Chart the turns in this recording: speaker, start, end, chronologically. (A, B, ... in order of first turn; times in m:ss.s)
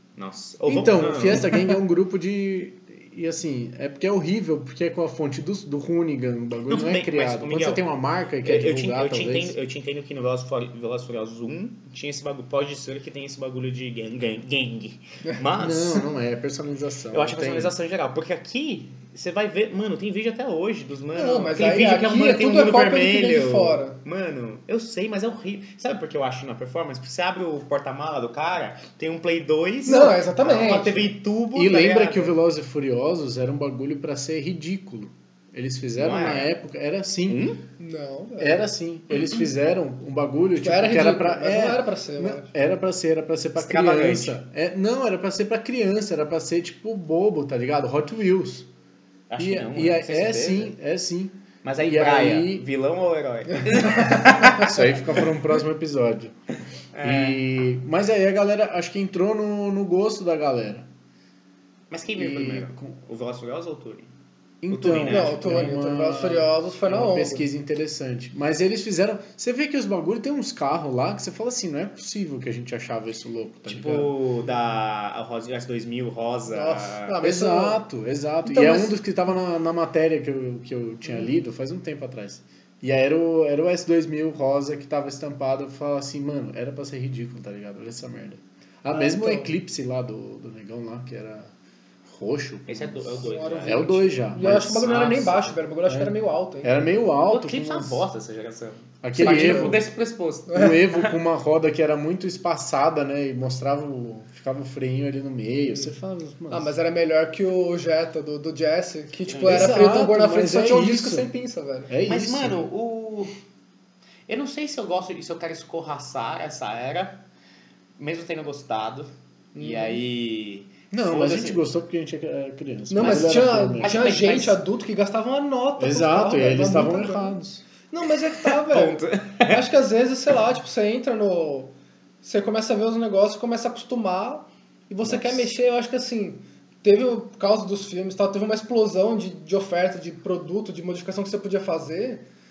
0:00.2-0:01.5 A
0:00.7-0:09.6 B
0:06.7-0:07.8 A
0:08.4-0:16.1 A
0:15.6-0:17.7 B
0:17.1-0:32.4 A
0:21.1-0:24.0 C
0:29.8-0:31.1 C
0:31.5-0:37.5 B
0:36.0-0:36.5 A
0:37.3-0:37.6 A
0:37.8-0:38.6 C
0:38.4-0:48.7 B
0:40.6-0:42.5 C
0:43.6-0:44.4 A
0:49.3-0:50.7 A
0:49.4-0:52.7 B
0:51.6-0:55.2 A
0:54.5-0:56.4 B
0:56.9-0:57.4 A
0:57.0-1:00.9 B
1:01.9-1:04.1 A
1:02.2-1:02.9 B
1:04.6-1:14.1 B
1:04.7-1:05.6 A
1:05.1-1:07.5 C
1:13.7-1:17.2 A
1:16.5-1:17.8 C
1:17.2-1:31.5 B
1:18.4-1:19.0 C
1:28.9-1:29.5 C
1:32.1-1:35.3 B
1:32.7-1:34.0 A
1:33.3-1:36.9 C
1:34.9-1:35.5 A
1:35.9-1:38.1 B
1:37.3-1:40.8 A
1:39.0-1:39.9 B
1:39.2-1:39.8 C
1:40.5-1:46.7 B
1:40.5-1:40.8 C
1:46.5-1:51.9 C
1:49.3-1:49.7 A
1:49.4-1:51.3 B
1:51.9-1:52.6 B
1:52.0-1:53.3 A
1:54.3-1:57.2 A
1:58.0-2:01.6 A
1:59.6-2:00.0 C
2:00.9-2:04.0 B
2:02.9-2:07.4 C
2:03.0-2:04.6 A
2:05.8-2:07.6 B
2:07.9-2:22.2 C
2:08.4-2:09.6 A
2:15.0-2:15.4 B